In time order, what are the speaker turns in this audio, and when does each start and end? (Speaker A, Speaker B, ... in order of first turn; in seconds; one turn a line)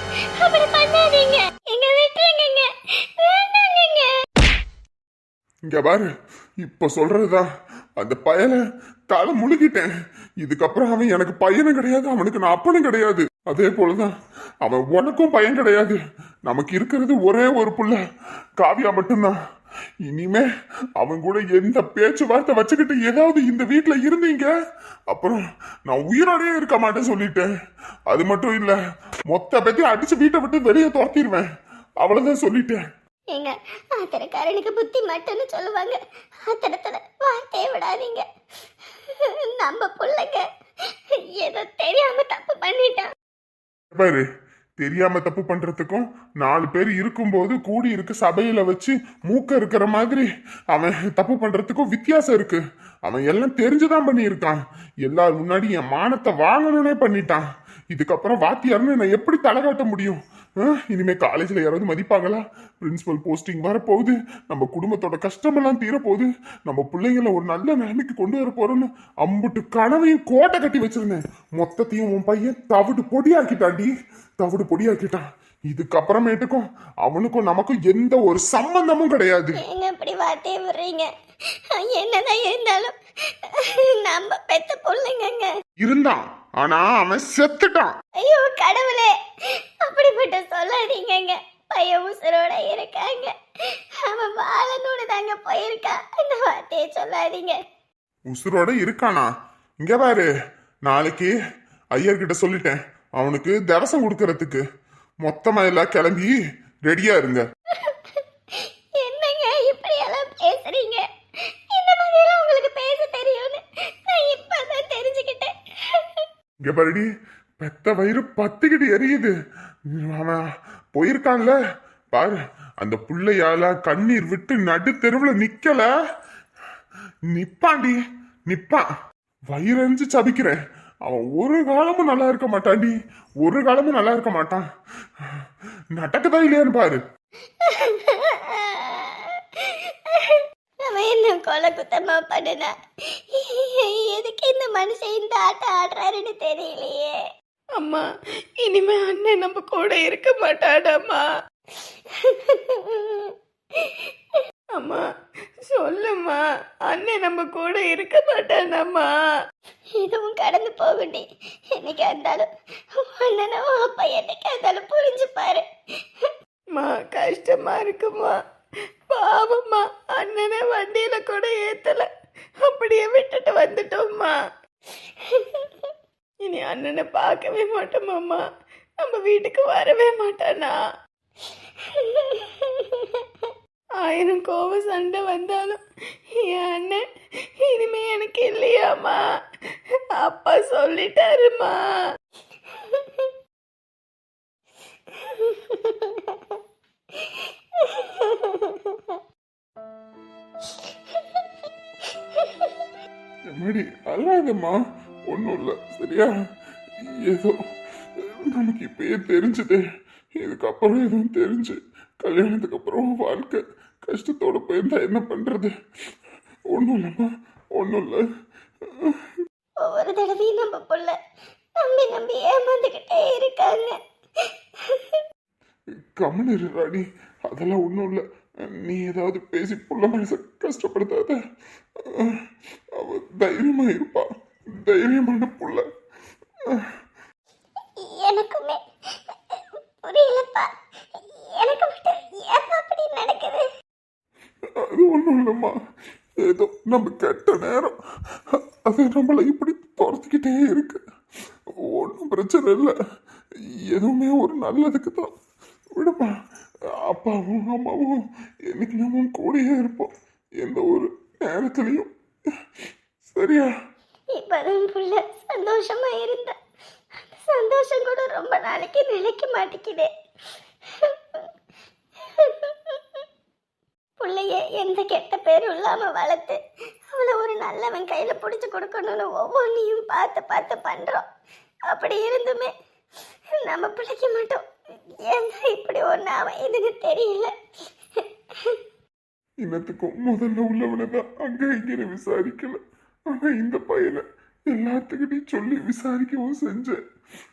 Speaker A: 0.4-2.7
Speaker A: 3.2-4.1
Speaker B: 5.7-6.1
Speaker B: 6.6-7.5
Speaker B: 8.0-8.6
Speaker B: 9.1-18.0
Speaker B: 18.6-19.4
Speaker B: 20.1-20.4
Speaker B: 21.0-24.5
Speaker B: 25.1-27.5
Speaker B: 28.1-28.8
Speaker B: 29.3-31.4
Speaker B: 32.0-32.8
Speaker A: 33.3-38.2
Speaker A: 39.5-40.4
Speaker A: 41.4-43.1
Speaker B: 43.9-44.2
Speaker B: 44.8-73.9
Speaker B: 74.4-79.6
Speaker A: 79.6-81.1
Speaker A: 81.8-82.9
Speaker A: 83.6-85.5
Speaker B: 85.8-87.9
Speaker A: 88.2-89.1
Speaker A: 89.8-93.3
Speaker A: 94.0-97.6
Speaker B: 98.3-99.3
Speaker B: 99.8-100.3
Speaker B: 100.8-101.3
Speaker B: 101.9-104.6
Speaker B: 105.2-106.3
Speaker B: 106.8-107.4
Speaker A: 107.8-108.2
Speaker A: 109.0-111.0
Speaker A: 111.7-116.2
Speaker B: 116.6-117.0
Speaker B: 117.6-119.3
Speaker B: 119.9-120.4
Speaker B: 120.9-121.5
Speaker B: 122.1-125.9
Speaker B: 127.3-128.0
Speaker B: 128.5-128.8
Speaker B: 129.5-134.6
Speaker B: 135.9-137.0
Speaker A: 137.6-142.7
Speaker A: 143.3-147.2
Speaker C: 147.8-148.0
Speaker C: 148.6-151.2
Speaker A: 152.2-153.3
Speaker C: 154.8-155.0
Speaker C: 155.6-159.1
Speaker A: 160.0-161.2
Speaker A: 161.8-165.6
Speaker C: 166.8-168.3
Speaker C: 169.1-172.1
Speaker C: 172.6-174.3
Speaker C: 176.4-178.4
Speaker C: 179.0-180.7
Speaker A: 182.2-182.5
Speaker C: 184.0-185.8
Speaker C: 186.4-187.0
Speaker C: 187.6-189.2
Speaker C: 190.2-191.8
Speaker A: 192.9-193.2
Speaker A: 195.2-196.5
Speaker A: 197.8-199.2
Speaker A: 202.1-202.7
Speaker B: 203.5-204.8
Speaker B: 205.3-206.3
Speaker B: 207.0-207.6
Speaker B: 208.2-209.8
Speaker B: 210.4-215.7
Speaker B: 216.7-218.2
Speaker A: 219.8-221.2
Speaker A: 221.8-223.9
Speaker A: 224.9-225.2
Speaker B: 226.1-231.4
Speaker B: 233.0-234.3
Speaker B: 234.8-235.8
Speaker A: 238.0-238.8
Speaker A: 239.5-243.6
Speaker B: 244.8-245.7
Speaker B: 246.4-247.9
Speaker B: 248.9-251.0
Speaker B: 251.8-252.9
Speaker B: 253.9-255.3
Speaker B: 255.9-256.3
Speaker B: 257.1-262.1
Speaker B: 263.2-263.7
Speaker A: 264.3-266.5
Speaker A: 267.3-270.1
Speaker A: 272.4-273.2
Speaker A: 274.2-276.6
Speaker A: 277.1-281.2
Speaker A: 281.9-282.7
Speaker A: 283.6-284.6
Speaker A: 285.2-287.5
Speaker B: 289.6-292.8
Speaker B: 293.3-297.0